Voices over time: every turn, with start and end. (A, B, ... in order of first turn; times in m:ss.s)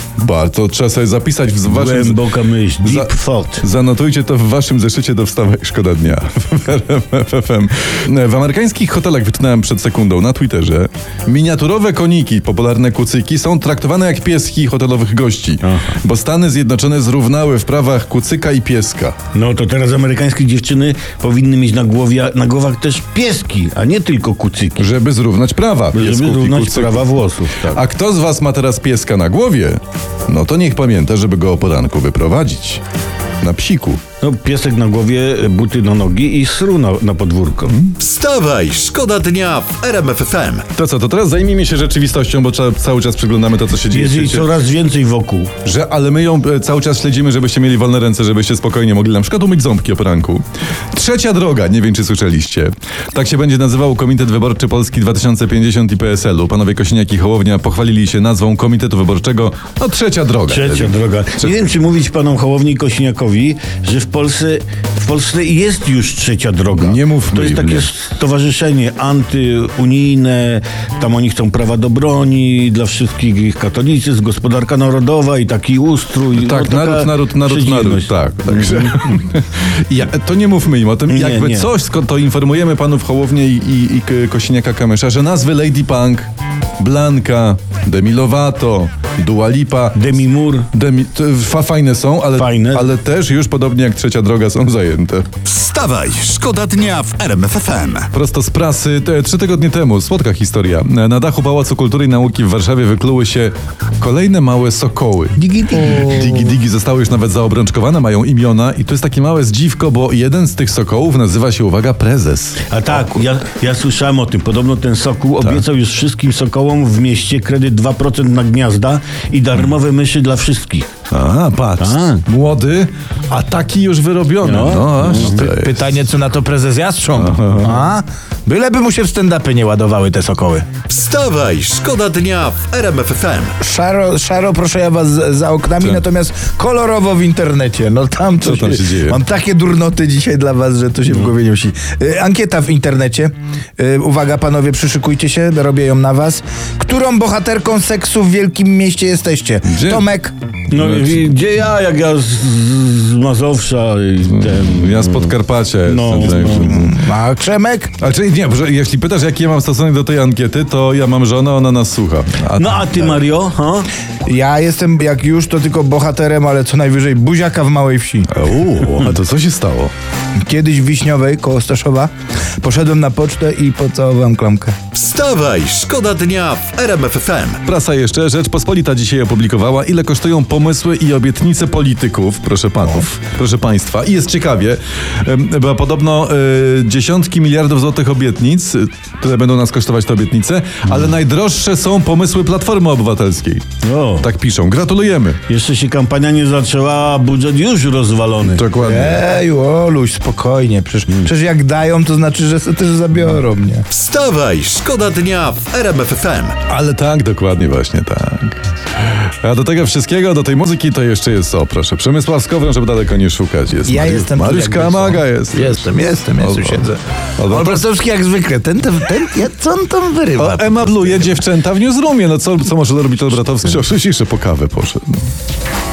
0:00.2-0:02.2 A
0:01.7-0:03.6 B
0:02.8-0:19.2 A
0:15.6-0:15.9 B
0:19.3-0:24.9 B
0:24.8-0:27.2 A
0:25.9-0:27.8 B
0:27.7-0:32.8 A
0:33.4-0:34.0 A
0:34.2-0:37.8 B
0:38.0-0:40.7 C
0:40.8-0:44.5 A
0:43.8-0:45.5 B
0:45.6-1:01.5 A
1:00.5-1:19.1 B
1:06.8-1:07.9 A
1:16.4-1:30.1 A
1:21.1-1:21.7 B
1:30.0-1:30.7 B
1:30.7-1:35.3 A
1:32.4-1:32.9 B
1:35.4-1:38.1 C
1:38.1-1:53.2 A
1:45.4-1:46.3 D
1:52.7-2:00.9 B
2:01.1-2:05.8 A
2:01.8-2:02.2 B
2:04.4-2:05.5 B
2:05.3-2:10.7 D
2:07.1-2:07.9 A
2:10.9-2:13.6 C
2:13.6-2:30.3 D
2:18.4-2:19.2 A
2:29.6-2:30.1 A
2:30.7-2:36.8 B
2:30.8-2:31.3 A
2:34.3-2:37.0 A
2:36.2-2:37.9 D
2:38.0-2:43.2 A
2:42.6-2:43.9 B
2:44.2-2:48.4 D
2:48.3-2:49.9 A
2:50.4-2:52.1 D
2:52.6-2:54.8 D
2:54.9-2:57.6 C
2:57.6-3:13.6 A
3:13.8-3:14.3 B
3:14.2-3:15.4 A
3:15.5-3:18.7 B
3:18.4-3:19.3 A
3:18.8-3:23.9 D
3:23.9-3:26.6 C
3:26.7-3:37.8 A
3:33.8-3:41.4 D
3:40.4-3:45.2 A